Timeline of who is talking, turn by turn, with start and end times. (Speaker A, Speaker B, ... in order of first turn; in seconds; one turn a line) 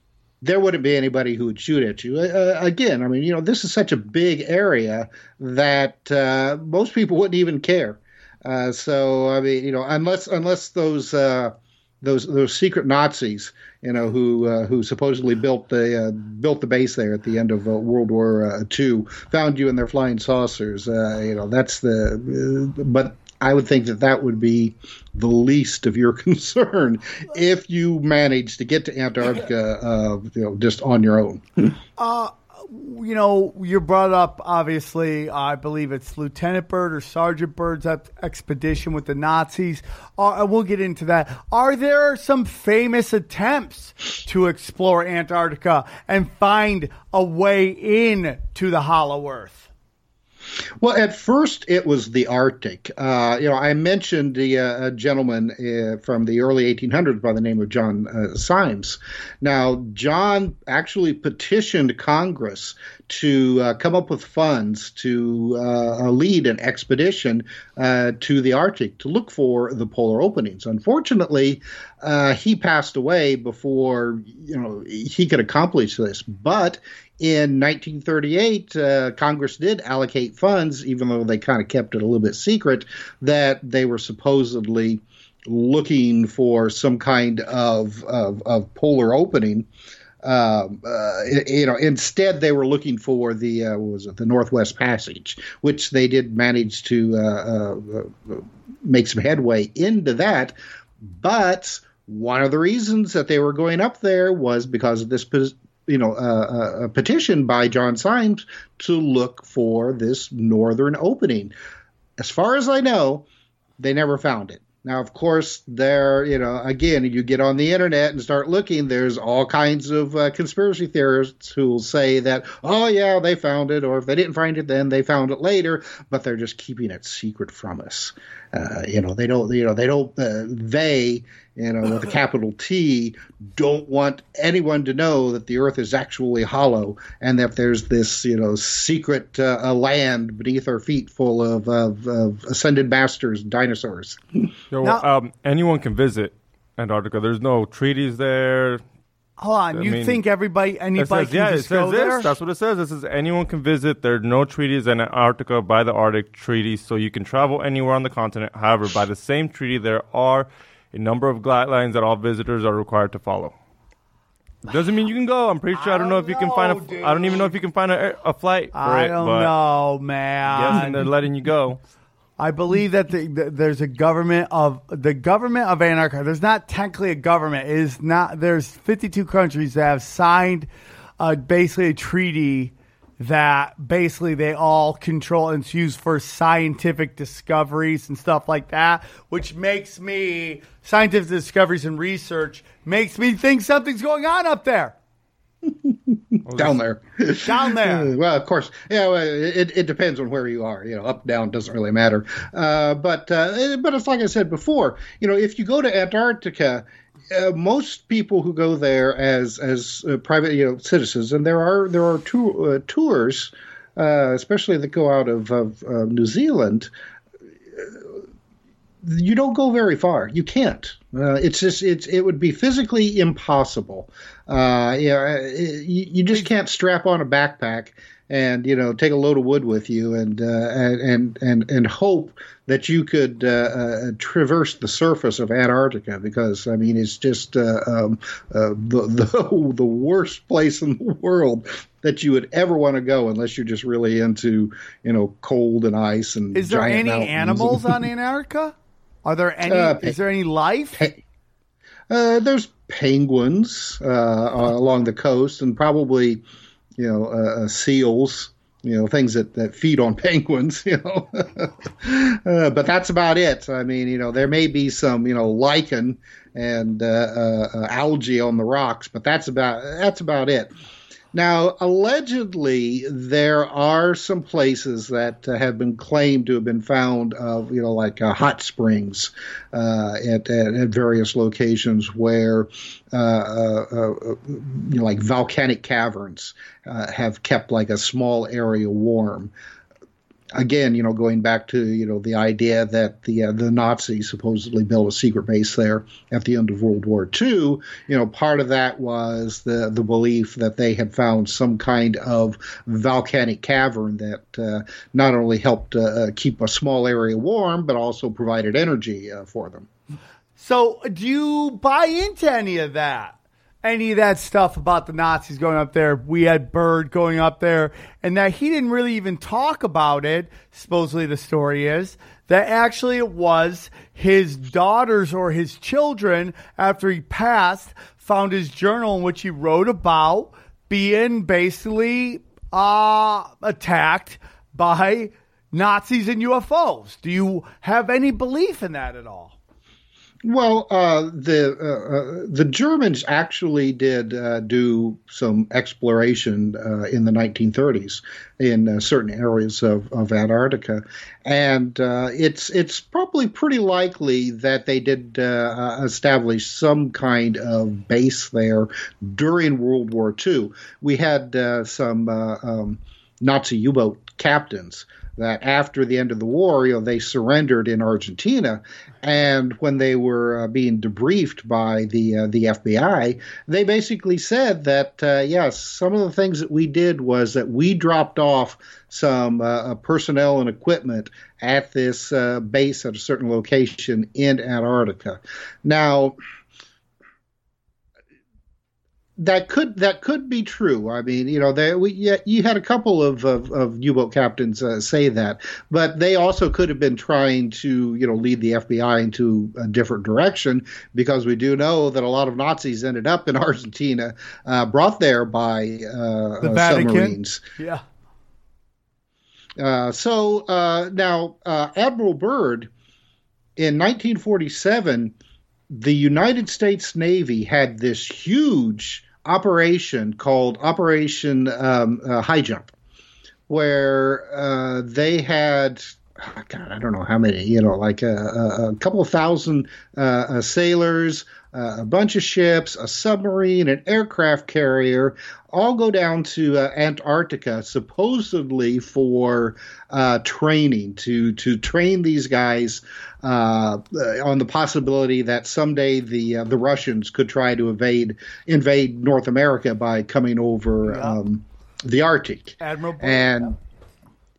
Speaker A: 0.4-31.8
Speaker B: 32.0-49.7
Speaker A: 50.8-89.7
Speaker A: 90.2-100.5
Speaker A: 101.1-111.5
Speaker A: 112.2-113.3
Speaker A: 113.8-144.4
Speaker C: 144.7-148.8
Speaker B: 149.4-152.3
Speaker C: 149.7-150.2
Speaker C: 151.0-163.6
Speaker C: 164.7-169.5
Speaker B: 165.7-167.6
Speaker B: 168.8-171.1
Speaker C: 170.5-171.8
Speaker B: 172.4-180.7
Speaker B: 181.2-194.9
Speaker A: 195.7-216.9
Speaker C: 196.5-196.8
Speaker B: 197.4-198.1
Speaker A: 217.8-218.1
Speaker A: 219.0-248.0
Speaker B: 246.6-248.7
Speaker B: 249.2-251.1
Speaker A: 249.7-250.2
Speaker A: 252.1-256.4
Speaker A: 257.0-270.7
Speaker A: 271.3-289.5
Speaker A: 290.5-309.9
Speaker B: 310.6-339.5
Speaker A: 340.4-386.4
Speaker A: 389.4-407.6
Speaker B: 406.6-408.0
Speaker A: 409.8-412.9
Speaker A: 413.8-415.4
Speaker A: 415.9-422.9
Speaker A: 423.7-453.8
Speaker B: 451.1-451.4
Speaker B: 452.8-453.7